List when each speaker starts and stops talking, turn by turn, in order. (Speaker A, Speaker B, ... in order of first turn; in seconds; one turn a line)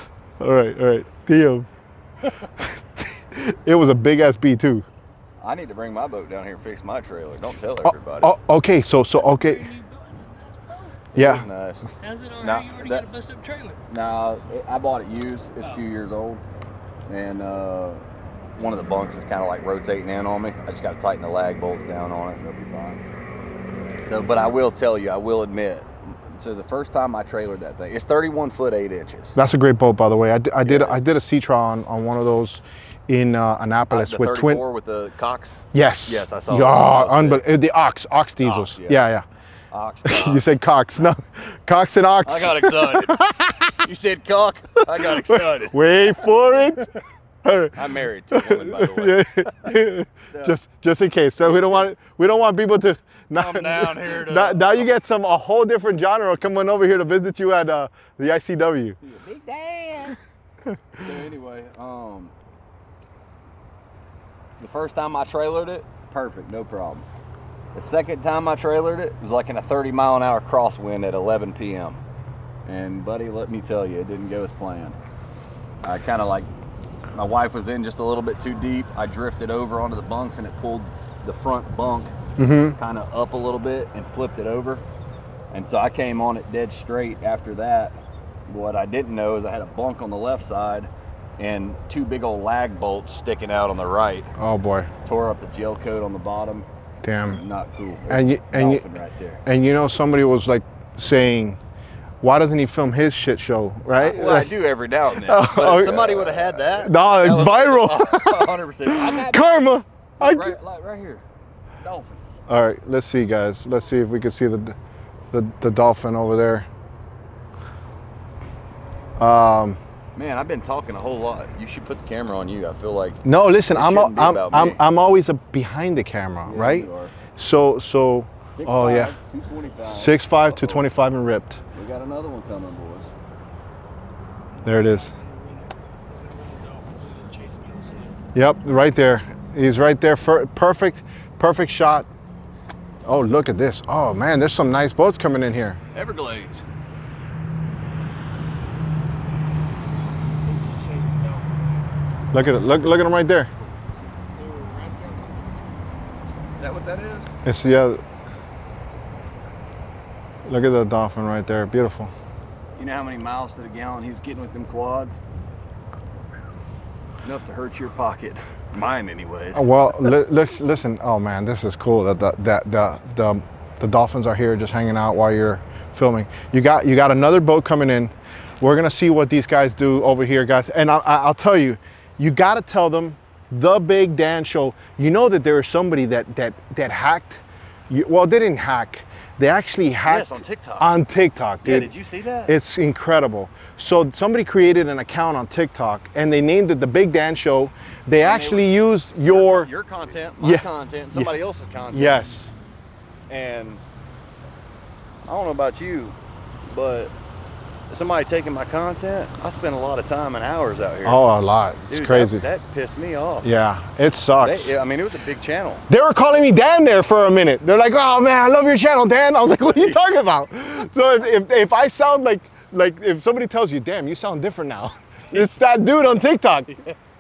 Speaker A: 0.4-1.7
Speaker A: 2.6-4.9
Speaker B: 5.4-8.3
Speaker A: 7.8-9.7
Speaker C: 9.2-11.0
Speaker B: 11.1-13.1
Speaker A: 11.2-11.5
Speaker C: 12.0-13.8
Speaker B: 13.9-16.4
Speaker B: 17.1-18.0
Speaker B: 18.6-23.0
Speaker B: 24.1-29.4
Speaker A: 29.4-34.6
Speaker B: 30.6-31.0
Speaker B: 33.9-37.5
Speaker A: 35.7-39.2
Speaker B: 38.4-39.0
Speaker B: 39.7-40.6
Speaker A: 40.0-43.8
Speaker B: 42.2-45.8
Speaker A: 44.9-46.9
Speaker A: 47.4-47.8
Speaker B: 47.7-49.3
Speaker A: 48.3-59.0
Speaker B: 50.3-50.6
Speaker B: 53.3-54.9
Speaker B: 59.0-60.2
Speaker B: 61.0-62.3
Speaker B: 64.6-67.1
Speaker B: 67.8-72.0
Speaker B: 72.7-75.0
Speaker B: 75.8-76.5
Speaker B: 77.1-82.1
Speaker A: 82.4-82.8
Speaker B: 82.8-84.8
Speaker B: 85.5-94.3
Speaker A: 94.4-94.9
Speaker B: 95.0-96.7
Speaker A: 97.0-97.4
Speaker B: 97.2-99.4
Speaker A: 98.1-98.8
Speaker A: 99.5-101.6
Speaker A: 102.2-104.6
Speaker B: 104.0-111.2
Speaker A: 105.2-110.6
Speaker B: 111.8-112.2
Speaker A: 112.5-114.8
Speaker A: 115.3-116.7
Speaker A: 119.2-119.8
Speaker B: 120.2-124.8
Speaker A: 123.2-129.2
Speaker B: 126.5-127.1
Speaker B: 128.6-130.9
Speaker A: 129.9-131.6
Speaker B: 131.8-133.1
Speaker C: 134.6-138.2
Speaker A: 134.6-135.1
Speaker A: 138.3-142.1
Speaker A: 143.0-145.8
Speaker B: 145.9-146.6
Speaker C: 150.4-152.0
Speaker A: 152.3-153.5
Speaker C: 154.3-155.8
Speaker B: 156.6-157.3
Speaker A: 157.4-158.0
Speaker A: 160.4-162.1
Speaker B: 162.8-165.2
Speaker B: 167.2-170.1
Speaker A: 169.6-191.9
Speaker B: 190.1-190.9
Speaker B: 191.6-192.6
Speaker A: 192.5-199.7
Speaker B: 198.2-202.2
Speaker A: 200.4-201.3
Speaker A: 201.9-202.5
Speaker B: 203.3-203.8
Speaker B: 205.2-207.1
Speaker B: 207.9-211.2
Speaker A: 211.1-212.5
Speaker B: 211.9-213.5
Speaker A: 213.4-214.7
Speaker B: 214.4-215.9
Speaker A: 215.9-226.7
Speaker B: 219.7-220.0
Speaker B: 226.7-226.9